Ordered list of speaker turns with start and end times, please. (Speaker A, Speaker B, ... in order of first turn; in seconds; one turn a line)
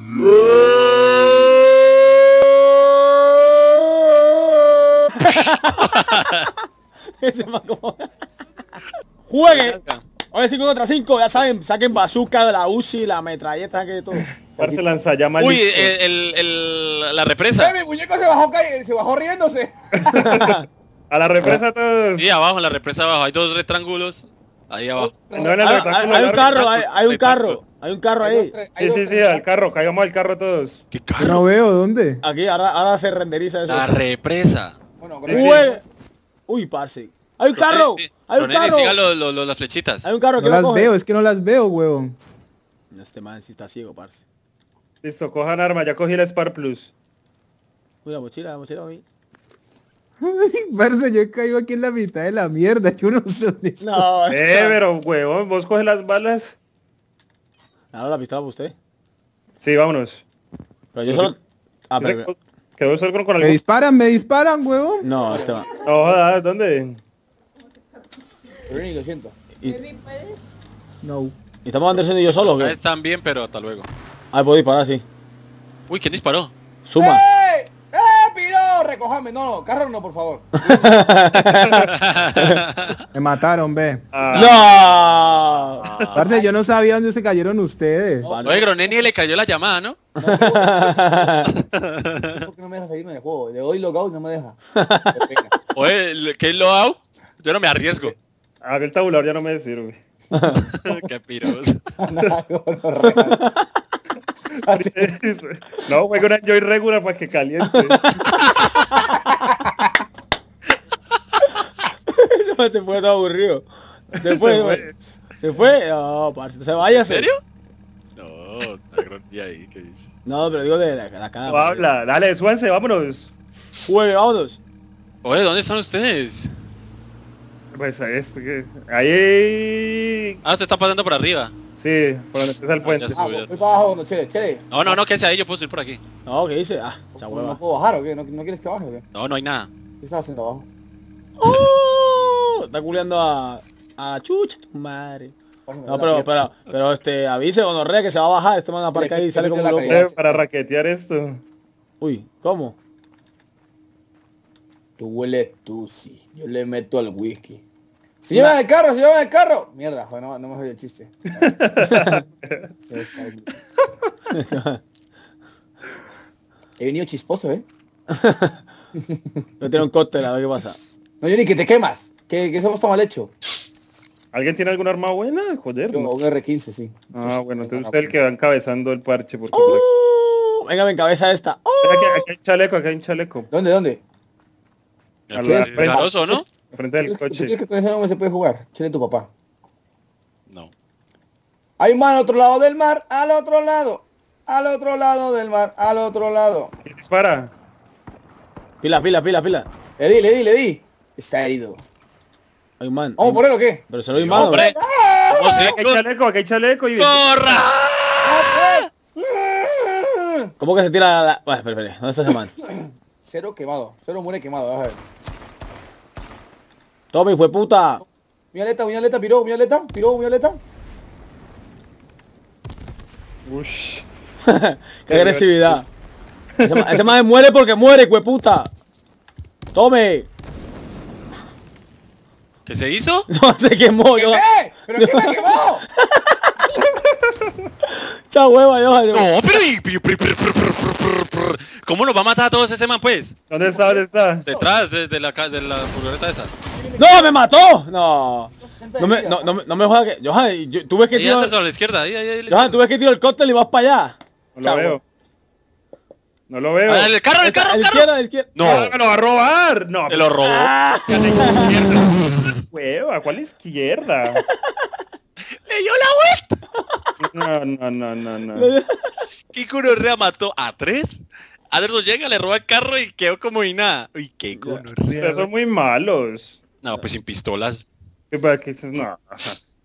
Speaker A: 0.3-1.2
Speaker B: 5.1-5.8
Speaker A: 5.3-6.5
Speaker B: 7.0-8.1
Speaker B: 9.3-9.8
Speaker A: 9.4-10.0
Speaker B: 10.3-14.3
Speaker C: 14.6-14.8
Speaker D: 14.6-15.9
Speaker A: 15.4-17.7
Speaker C: 17.6-20.4
Speaker D: 20.0-22.2
Speaker B: 20.1-20.6
Speaker A: 22.1-25.1
Speaker C: 24.9-25.6
Speaker D: 25.3-26.6
Speaker B: 25.6-28.5
Speaker A: 26.4-27.6
Speaker C: 28.2-29.5
Speaker D: 28.8-30.8
Speaker A: 30.9-31.4
Speaker E: 31.2-32.2
Speaker B: 32.2-33.9
Speaker A: 33.7-34.8
Speaker C: 35.0-35.8
Speaker D: 35.2-35.7
Speaker B: 35.3-35.8
Speaker B: 36.5-39.0
Speaker A: 37.5-40.1
Speaker B: 40.0-40.9
Speaker E: 40.4-42.2
Speaker B: 42.9-44.2
Speaker D: 45.0-46.9
Speaker B: 48.0-49.0
Speaker E: 50.2-54.0
Speaker B: 53.8-54.8
Speaker D: 54.3-56.5
Speaker B: 57.9-58.7
Speaker D: 59.6-60.2
Speaker B: 60.9-62.3
Speaker D: 62.0-63.6
Speaker E: 63.4-65.1
Speaker B: 65.0-65.7
Speaker C: 65.2-66.1
Speaker D: 65.8-67.0
Speaker C: 68.7-69.3
Speaker B: 69.6-70.0
Speaker E: 71.0-71.3
Speaker B: 71.6-72.8
Speaker A: 72.3-73.9
Speaker B: 74.3-75.0
Speaker A: 75.9-76.5
Speaker B: 76.8-77.2
Speaker C: 77.0-81.4
Speaker B: 80.6-82.6
Speaker A: 81.9-83.0
Speaker E: 83.1-84.0
Speaker D: 84.1-84.6
Speaker A: 84.3-84.6
Speaker B: 84.3-85.8
Speaker A: 85.8-86.2
Speaker C: 86.1-86.5
Speaker E: 86.1-88.3
Speaker C: 88.2-89.1
Speaker B: 88.3-88.7
Speaker A: 88.4-90.0
Speaker C: 90.2-91.3
Speaker B: 90.2-91.5
Speaker A: 91.7-92.3
Speaker C: 92.3-94.6
Speaker B: 94.7-95.2
Speaker C: 95.1-95.5
Speaker A: 95.7-98.1
Speaker D: 98.6-100.0
Speaker B: 100.3-100.6
Speaker A: 100.7-101.8
Speaker C: 102.0-103.5
Speaker B: 103.1-103.6
Speaker C: 104.7-105.1
Speaker D: 104.7-108.0
Speaker B: 107.9-108.3
Speaker B: 109.0-109.2
Speaker B: 112.1-117.3
Speaker D: 114.2-114.9
Speaker A: 116.8-117.4
Speaker A: 118.2-120.1
Speaker B: 120.2-121.9
Speaker D: 121.5-123.3
Speaker B: 123.8-124.6
Speaker A: 125.2-126.5
Speaker D: 127.7-130.4
Speaker A: 130.4-131.5
Speaker D: 131.8-133.2
Speaker A: 132.8-133.7
Speaker C: 133.1-135.0
Speaker A: 134.7-136.0
Speaker B: 136.2-137.6
Speaker C: 137.2-139.0
Speaker A: 139.1-139.7
Speaker C: 140.0-140.7
Speaker B: 141.4-145.3
Speaker A: 141.4-141.7
Speaker C: 145.7-146.3
Speaker B: 145.8-150.0
Speaker C: 148.9-150.3
Speaker D: 149.9-151.4
Speaker B: 152.0-152.8
Speaker C: 155.0-157.6
Speaker C: 158.2-161.5
Speaker D: 161.4-162.8
Speaker B: 161.9-162.2
Speaker C: 162.9-163.6
Speaker B: 164.3-164.8
Speaker C: 166.8-167.7
Speaker B: 168.1-168.6
Speaker B: 169.6-170.8
Speaker C: 171.2-173.4
Speaker D: 174.3-176.2
Speaker C: 175.9-178.1
Speaker D: 177.1-179.8
Speaker B: 179.5-182.3
Speaker D: 181.8-183.5
Speaker C: 183.5-184.0
Speaker A: 185.3-186.4
Speaker D: 185.3-186.1
Speaker C: 185.4-186.4
Speaker D: 186.7-187.6
Speaker C: 187.0-189.3
Speaker C: 191.8-196.7
Speaker D: 196.8-197.5
Speaker B: 198.8-199.7
Speaker C: 200.0-201.8
Speaker B: 202.8-204.7
Speaker C: 203.2-205.8
Speaker A: 204.1-204.8
Speaker A: 205.3-206.0
Speaker D: 205.6-207.6
Speaker A: 207.0-208.8
Speaker C: 208.2-210.5
Speaker B: 210.6-212.5
Speaker C: 212.6-215.0
Speaker B: 217.1-218.0
Speaker C: 218.5-220.6
Speaker D: 223.4-224.1
Speaker B: 224.4-225.8
Speaker D: 225.1-225.8
Speaker B: 226.6-228.7
Speaker D: 226.7-227.1
Speaker B: 229.7-230.3
Speaker A: 232.7-233.3
Speaker B: 233.3-236.6
Speaker C: 234.1-235.8
Speaker B: 237.9-239.3
Speaker A: 239.1-243.4
Speaker D: 243.5-244.5
Speaker C: 243.6-244.7
Speaker A: 244.5-246.5
Speaker C: 246.7-247.4
Speaker B: 247.0-251.6
Speaker C: 248.6-249.6
Speaker A: 251.1-252.8
Speaker B: 252.5-255.0
Speaker D: 254.6-255.0
Speaker D: 256.5-257.1
Speaker A: 256.9-258.9
Speaker B: 257.4-258.5
Speaker D: 258.6-260.4
Speaker A: 260.1-262.6
Speaker B: 260.4-261.7
Speaker D: 262.7-264.4
Speaker B: 264.4-264.7
Speaker A: 265.6-266.6
Speaker D: 267.2-268.7
Speaker B: 268.5-269.1
Speaker A: 269.5-275.5
Speaker B: 274.5-274.9
Speaker D: 275.1-276.6
Speaker A: 276.8-277.9
Speaker D: 278.3-279.6